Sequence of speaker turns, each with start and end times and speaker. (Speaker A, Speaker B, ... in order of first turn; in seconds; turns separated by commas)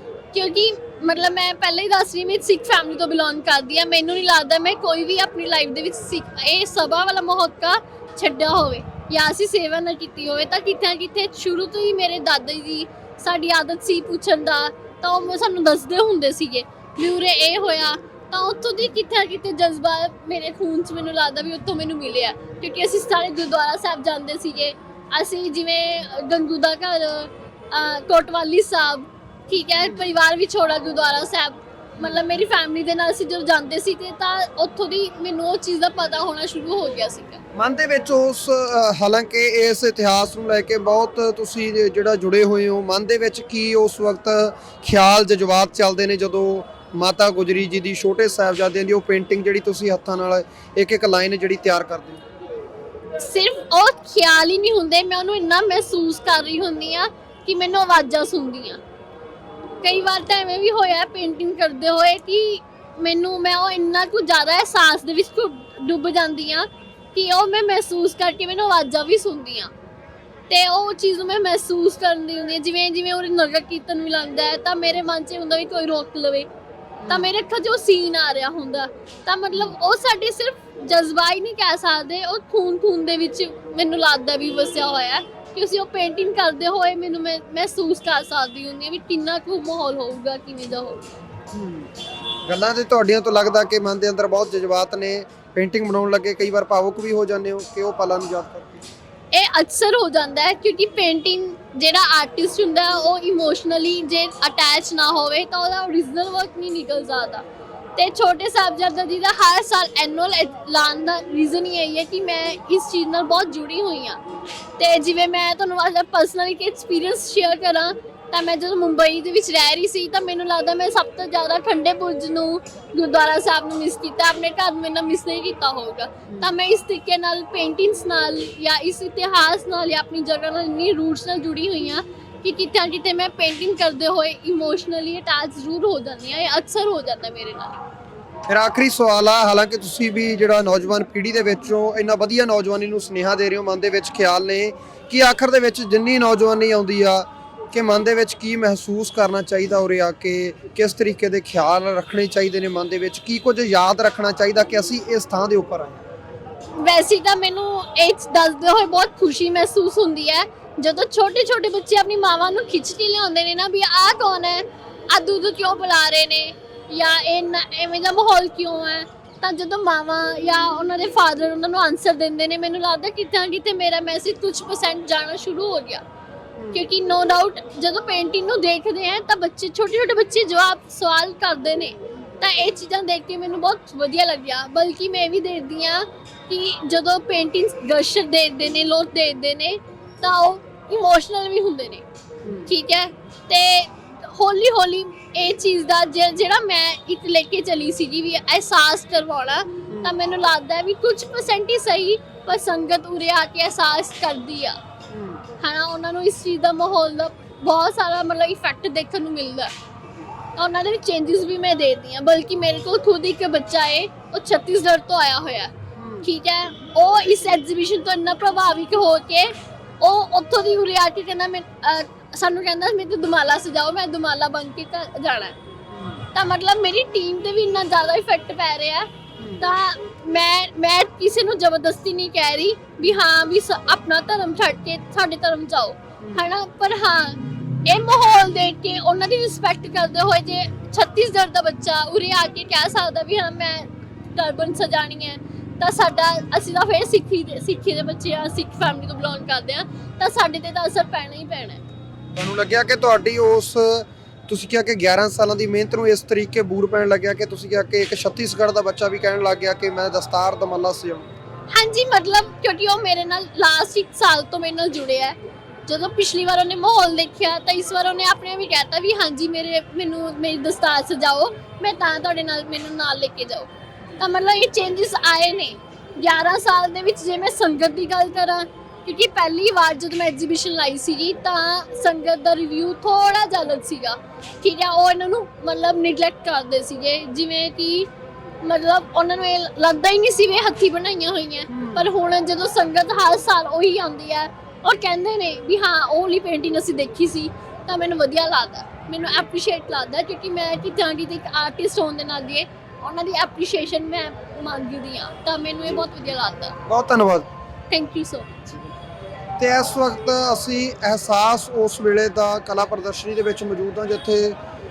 Speaker A: 0.3-37.4, Speaker B: 37.5-52.2, Speaker A: 53.2-58.8, Speaker A: 59.8-69.7, Speaker A: 70.5-76.5, Speaker B: 77.0-77.3, Speaker A: 77.1-91.0, Speaker B: 91.5-91.9, Speaker B: 92.5-98.8, Speaker A: 99.3-107.5, Speaker A: 108.0-114.2, Speaker A: 114.8-137.8, Speaker B: 126.3-126.5, Speaker B: 138.5-156.0, Speaker A: 156.8-176.0, Speaker B: 176.6-176.8, Speaker A: 176.7-192.1, Speaker B: 192.4-192.7, Speaker A: 192.7-204.8, Speaker B: 205.1-205.4, Speaker A: 205.6-209.7, Speaker A: 210.6-225.6, Speaker B: 216.0-216.3, Speaker B: 225.9-226.2, Speaker A: 226.3-251.8, Speaker B: 229.4-229.7, Speaker B: 252.3-261.3, Speaker A: 261.7-265.4, Speaker A: 265.9-288.1, Speaker A: 288.6-306.8, Speaker B: 291.7-292.1, Speaker B: 306.9-307.5, Speaker A: 307.9-308.8, Speaker B: 309.6-314.6